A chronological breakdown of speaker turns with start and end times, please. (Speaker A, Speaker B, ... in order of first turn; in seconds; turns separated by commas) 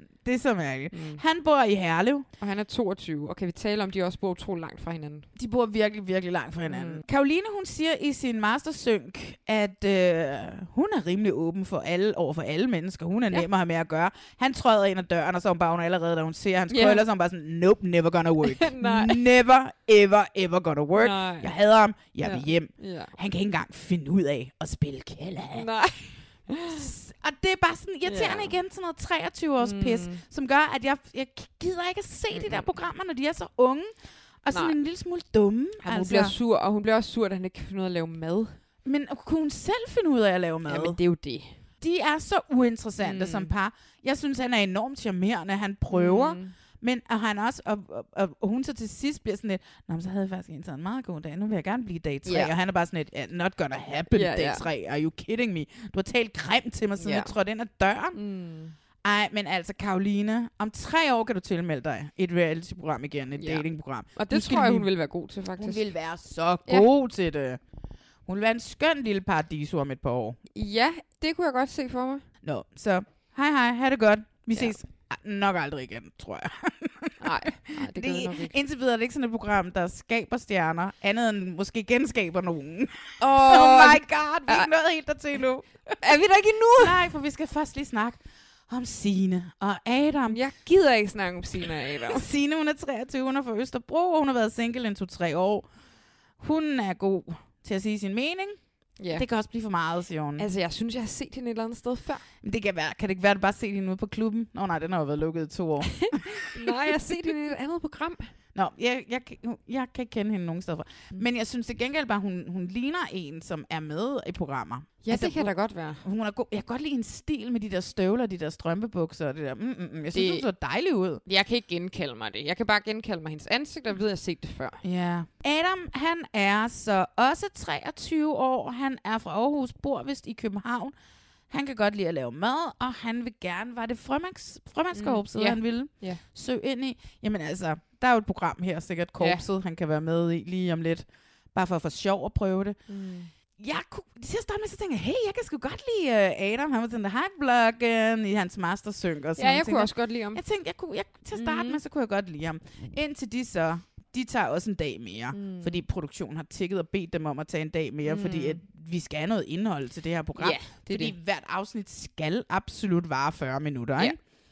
Speaker A: 0.2-2.3, Speaker B: 0.9-1.2, Speaker B: 2.4-5.3, Speaker A: 5.4-25.7, Speaker B: 6.7-7.0, Speaker B: 16.7-17.0, Speaker B: 18.4-19.2, Speaker B: 21.0-21.5, Speaker B: 22.2-23.1, Speaker B: 25.5-26.9, Speaker A: 26.7-33.9, Speaker B: 28.1-28.6, Speaker B: 29.6-30.2, Speaker B: 32.3-32.7, Speaker A: 34.4-36.4, Speaker B: 34.5-34.8, Speaker B: 35.8-38.6, Speaker A: 38.9-41.0, Speaker B: 40.7-41.6, Speaker A: 41.8-58.2, Speaker B: 43.0-43.5, Speaker B: 45.9-46.5, Speaker B: 52.2-52.5, Speaker B: 54.1-54.7, Speaker B: 57.0-57.3, Speaker B: 58.1-58.8, Speaker A: 59.0-64.9, Speaker B: 63.4-65.9, Speaker A: 65.6-67.6, Speaker A: 68.3-70.4, Speaker B: 70.5-72.2, Speaker A: 72.4-86.0, Speaker B: 77.2-78.5, Speaker B: 83.2-84.7, Speaker B: 86.0-87.0, Speaker A: 86.8-90.4, Speaker B: 90.3-92.3, Speaker A: 92.0-95.7, Speaker A: 96.4-98.6, Speaker B: 99.0-99.3, Speaker A: 99.1-100.5, Speaker B: 100.4-102.2, Speaker A: 102.4-106.9, Speaker B: 106.0-108.3, Speaker A: 108.5-121.2, Speaker B: 115.0-116.0, Speaker B: 120.1-120.5, Speaker B: 121.3-124.8, Speaker A: 124.8-130.9, Speaker A: 131.5-142.8, Speaker B: 134.9-136.2, Speaker B: 142.9-143.3, Speaker A: 143.6-164.2, Speaker B: 149.4-150.4, Speaker B: 151.3-151.8, Speaker B: 155.3-155.8, Speaker B: 158.1-158.6, Speaker B: 160.4-161.2